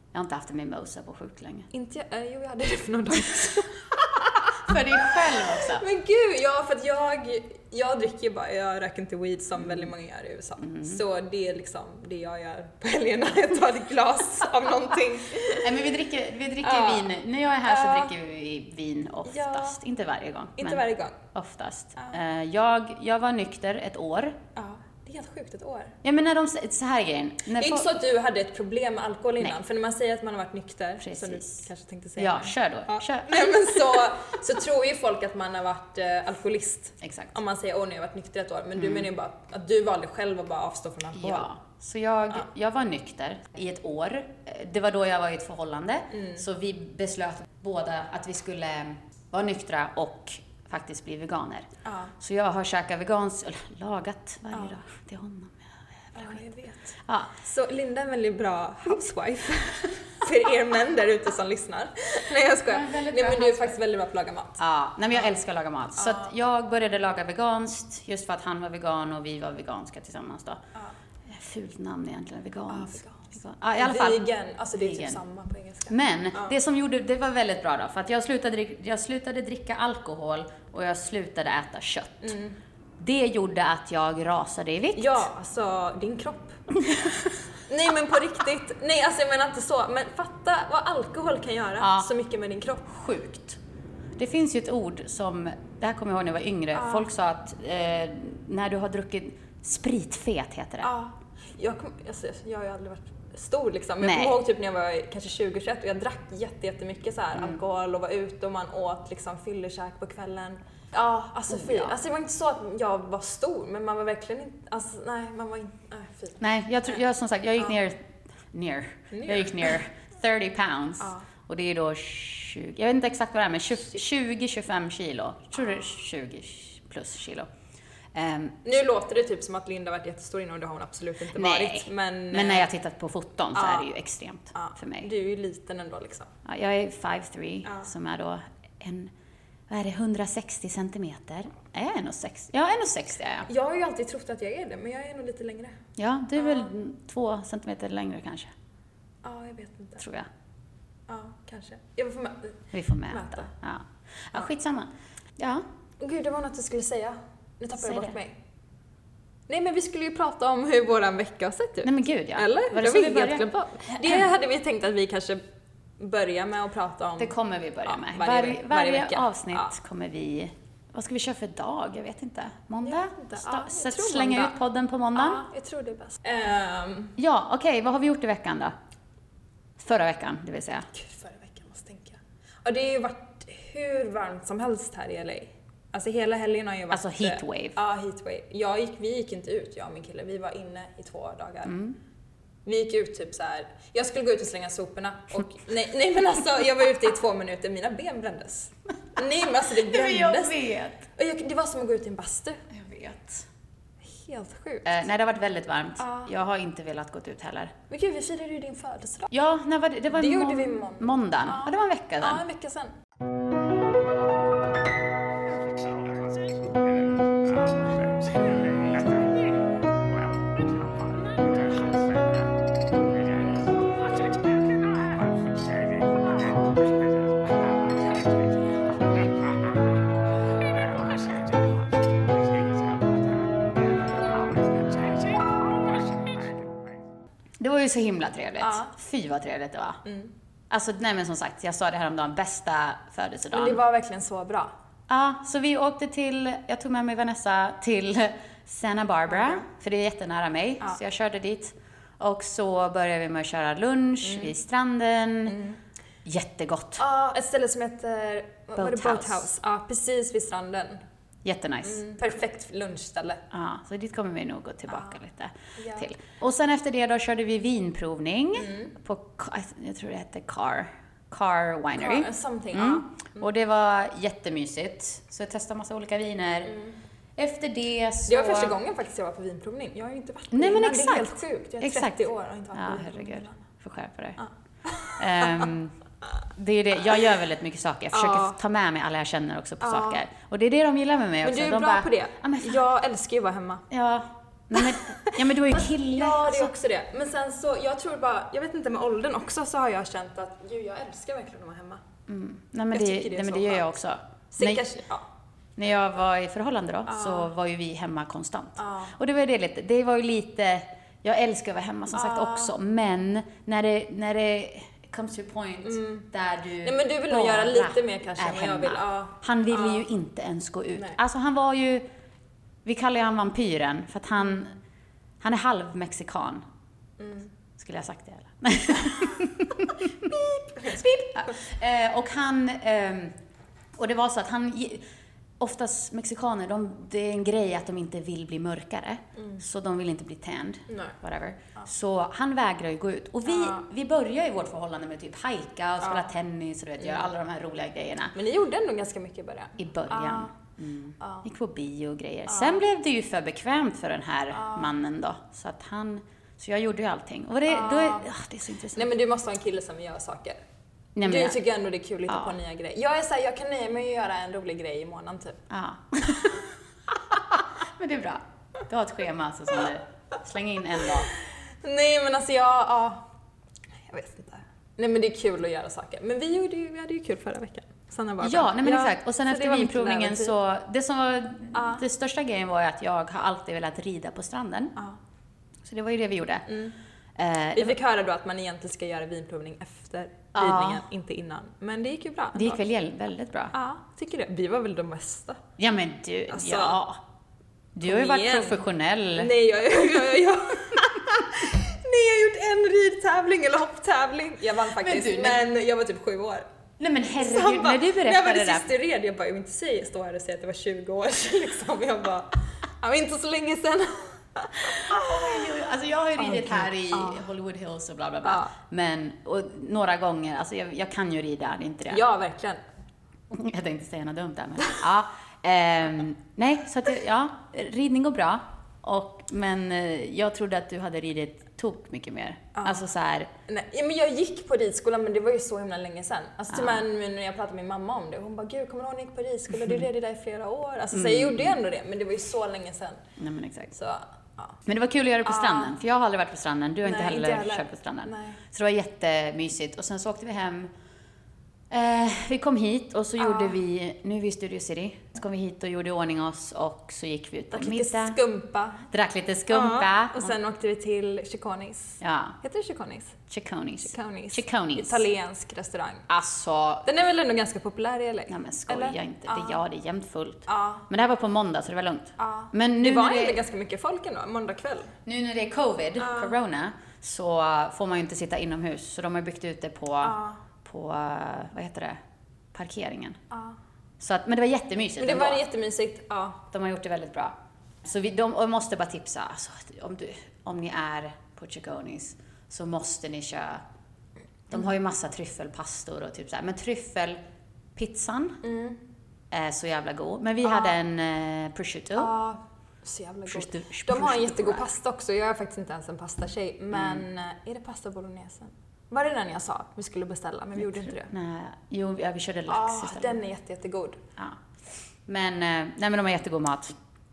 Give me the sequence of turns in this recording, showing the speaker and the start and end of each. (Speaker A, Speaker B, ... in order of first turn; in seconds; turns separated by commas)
Speaker A: 0.1-1.7, Speaker B: 1.7-4.8, Speaker A: 4.6-5.8, Speaker B: 5.3-15.9, Speaker A: 9.6-9.9, Speaker A: 10.6-11.0, Speaker A: 15.5-24.4, Speaker B: 16.6-17.1, Speaker B: 17.6-18.1, Speaker B: 19.3-19.8, Speaker B: 20.6-21.2, Speaker B: 24.6-25.9, Speaker A: 26.0-27.9, Speaker B: 27.6-41.5, Speaker A: 31.0-31.6, Speaker A: 32.2-33.7, Speaker A: 37.0-37.3, Speaker A: 38.8-39.1, Speaker A: 41.1-51.7, Speaker B: 46.1-46.4, Speaker B: 51.8-52.1, Speaker A: 52.2-56.4, Speaker B: 56.1-64.6, Speaker A: 57.0-57.3, Speaker A: 62.7-63.8, Speaker A: 64.6-70.6, Speaker B: 66.0-66.3, Speaker A: 71.3-75.2, Speaker B: 72.7-73.2, Speaker B: 73.8-76.5, Speaker A: 75.9-82.3, Speaker B: 82.2-82.6, Speaker A: 83.0-85.2, Speaker B: 85.0-86.6, Speaker A: 86.8-87.3, Speaker B: 87.7-92.9, Speaker A: 91.8-92.1, Speaker A: 92.9-93.6, Speaker A: 94.2-100.9, Speaker B: 96.7-97.1, Speaker B: 100.8-116.4, Speaker A: 104.0-104.4, Speaker A: 111.5-111.9, Speaker A: 116.4-127.5, Speaker B: 119.1-119.8, Speaker A: 128.1-128.7, Speaker B: 128.6-132.7, Speaker A: 131.3-135.1, Speaker B: 133.5-133.9, Speaker B: 134.5-136.3, Speaker A: 136.4-139.1, Speaker A: 139.7-143.5, Speaker B: 143.5-145.8, Speaker A: 145.9-148.5, Speaker B: 146.4-146.7, Speaker B: 149.2-150.0, Speaker A: 150.0-150.3, Speaker B: 151.1-153.5, Speaker A: 152.7-155.6, Speaker B: 156.0-158.4, Speaker A: 157.8-158.1, Speaker B: 159.5-165.4, Speaker A: 161.8-164.3, Speaker B: 166.0-167.3, Speaker A: 167.2-175.4, Speaker B: 167.8-169.7, Speaker B: 172.8-174.6, Speaker B: 175.1-177.2, Speaker A: 177.2-178.7, Speaker A: 179.8-180.9, Speaker B: 180.9-191.8, Speaker A: 186.9-187.8, Speaker A: 191.7-192.0, Speaker B: 192.7-200.6, Speaker A: 199.8-201.1, Speaker B: 201.2-202.6, Speaker A: 202.7-203.5, Speaker B: 204.1-205.0, Speaker A: 204.8-207.7, Speaker B: 206.0-206.3, Speaker B: 207.9-209.3, Speaker A: 209.3-212.4, Speaker B: 210.1-212.9, Speaker A: 237.6-240.0, Speaker B: 238.6-238.9, Speaker B: 240.0-240.3, Speaker A: 240.7-243.8, Speaker B: 243.5-244.7, Speaker A: 245.1-255.6, Speaker B: 249.3-249.6, Speaker B: 254.2-254.5, Speaker B: 255.5-255.8, Speaker A: 256.2-257.0, Speaker B: 257.0-261.0, Speaker A: 258.8-259.5, Speaker A: 261.4-262.1, Speaker B: 261.8-263.4, Speaker A: 263.5-276.7, Speaker B: 264.9-265.1, Speaker B: 265.8-266.1, Speaker B: 268.6-268.9, Speaker B: 271.9-273.5, Speaker B: 276.6-276.9, Speaker A: 277.4-278.8, Speaker B: 278.3-283.6, Speaker A: 280.5-284.4, Speaker B: 284.4-285.7, Speaker A: 285.2-285.9, Speaker A: 286.5-292.8, Speaker B: 288.1-288.6, Speaker B: 289.8-290.2, Speaker B: 291.4-293.8, Speaker A: 293.9-296.7, Speaker B: 294.8-302.0, Speaker A: 302.3-304.8, Speaker B: 302.9-303.9, Speaker B: 304.5-305.2, Speaker A: 305.8-322.0, Speaker B: 307.1-307.5, Speaker B: 308.8-309.1, Speaker B: 312.1-312.7, Speaker B: 315.8-316.3, Speaker B: 316.8-320.1, Speaker A: 322.8-324.7, Speaker A: 325.4-326.6, Speaker B: 327.2-327.5, Speaker A: 327.8-333.4, Speaker B: 330.3-331.6, Speaker A: 333.9-335.0, Speaker A: 335.6-348.3, Speaker B: 340.9-341.2, Speaker B: 343.4-343.8, Speaker B: 346.0-346.3, Speaker B: 347.0-347.3, Speaker B: 348.3-350.5, Speaker A: 349.8-359.1, Speaker B: 351.2-351.4, Speaker B: 352.5-352.8, Speaker B: 354.5-354.9, Speaker B: 357.7-358.3, Speaker B: 358.9-360.6, Speaker A: 361.1-361.6, Speaker B: 361.2-365.6, Speaker A: 362.3-362.6, Speaker A: 365.7-371.3, Speaker B: 371.2-373.3, Speaker B: 374.1-380.5, Speaker A: 378.4-384.9, Speaker B: 381.7-382.0, Speaker A: 385.8-386.6, Speaker B: 386.7-386.9, Speaker A: 387.4-387.9, Speaker B: 387.7-392.8, Speaker A: 390.5-391.0, Speaker A: 392.5-393.7, Speaker B: 393.7-395.6, Speaker A: 395.8-397.2, Speaker B: 396.5-397.0, Speaker A: 397.9-399.5, Speaker B: 398.0-398.8, Speaker B: 399.4-406.7, Speaker A: 405.0-405.6, Speaker A: 407.0-408.9, Speaker B: 407.4-415.7, Speaker A: 414.9-422.2, Speaker B: 416.4-417.4, Speaker B: 418.4-418.7, Speaker B: 422.1-422.8, Speaker A: 423.5-433.5, Speaker B: 432.7-433.0, Speaker B: 433.7-443.2, Speaker A: 436.7-437.0, Speaker A: 441.1-441.7, Speaker A: 443.4-443.9, Speaker B: 443.9-444.8, Speaker A: 444.9-450.9, Speaker B: 445.4-445.9, Speaker B: 447.0-448.6, Speaker A: 451.9-458.4, Speaker B: 453.4-453.8, Speaker B: 457.7-459.0, Speaker A: 459.1-460.5, Speaker B: 459.7-463.4, Speaker A: 462.2-462.6, Speaker A: 463.5-465.2, Speaker B: 464.0-466.3, Speaker A: 466.3-467.1, Speaker B: 467.0-469.8, Speaker A: 468.5-473.6, Speaker B: 470.7-471.1, Speaker B: 472.4-475.1, Speaker A: 475.2-482.2, Speaker B: 476.2-476.5, Speaker B: 480.2-480.6, Speaker A: 482.7-483.4, Speaker B: 483.5-483.8, Speaker A: 484.2-485.6, Speaker B: 485.2-486.6, Speaker A: 486.7-493.8, Speaker A: 494.7-497.4, Speaker A: 497.9-498.6, Speaker B: 498.6-499.0, Speaker A: 499.5-502.3, Speaker B: 500.6-500.9, Speaker B: 502.1-511.3, Speaker A: 503.5-504.9, Speaker A: 506.9-507.2, Speaker A: 510.8-513.4, Speaker B: 512.7-514.2, Speaker A: 515.2-516.9